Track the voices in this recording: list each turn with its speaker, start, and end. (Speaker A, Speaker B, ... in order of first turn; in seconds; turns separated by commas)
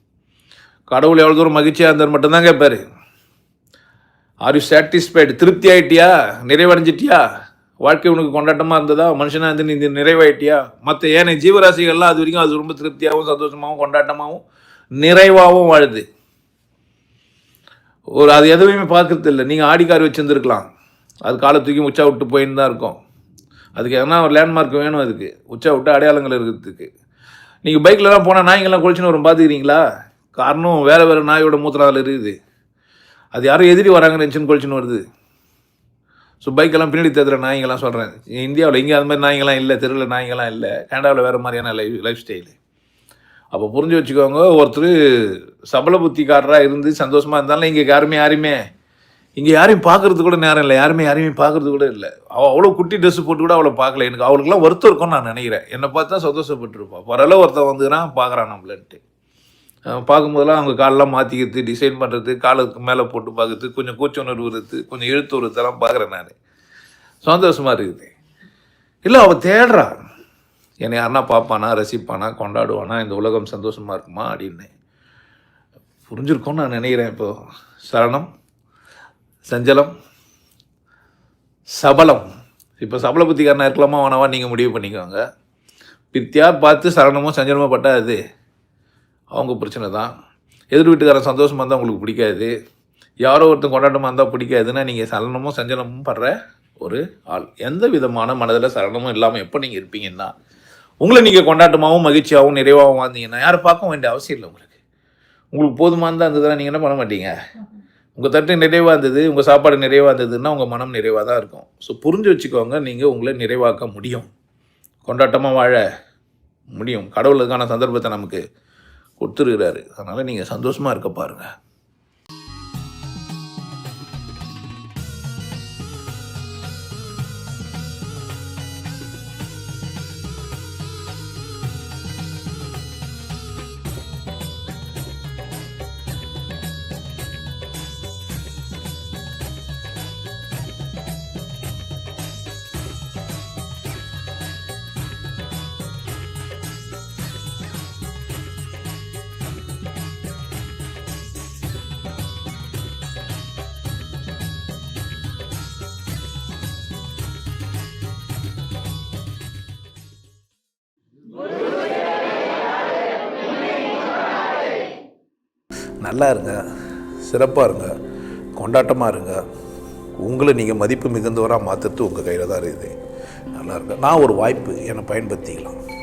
Speaker A: 0.9-2.8, Speaker A: 4.4-7.2, Speaker A: 7.8-14.4, Speaker A: 15.0-16.1, Speaker A: 18.2-20.7, Speaker A: 21.2-23.0, Speaker A: 23.8-26.9, Speaker A: 27.6-29.8, Speaker A: 30.4-32.4, Speaker A: 33.3-35.0, Speaker A: 36.4-42.6, Speaker A: 43.5-48.6, Speaker A: 49.4-59.0, Speaker A: 59.9-66.4, Speaker A: 67.2-68.1, Speaker A: 69.0-70.0, Speaker A: 70.8-74.7, Speaker A: 76.1-77.3, Speaker A: 77.9-78.3, Speaker A: 79.4-79.9, Speaker A: 81.8-82.2, Speaker A: 82.8-85.2, Speaker A: 86.1-88.2, Speaker A: 89.3-90.1, Speaker A: 90.7-92.5, Speaker A: 93.2-100.3, Speaker A: 101.0-104.8, Speaker A: 105.5-107.3, Speaker A: 108.2-114.3, Speaker A: 115.1-115.8, Speaker A: 116.7-118.4, Speaker A: 119.2-121.5, Speaker A: 166.0-166.6, Speaker A: 167.2-167.9, Speaker A: 168.5-169.4, Speaker A: 170.2-172.9, Speaker A: 173.5-175.8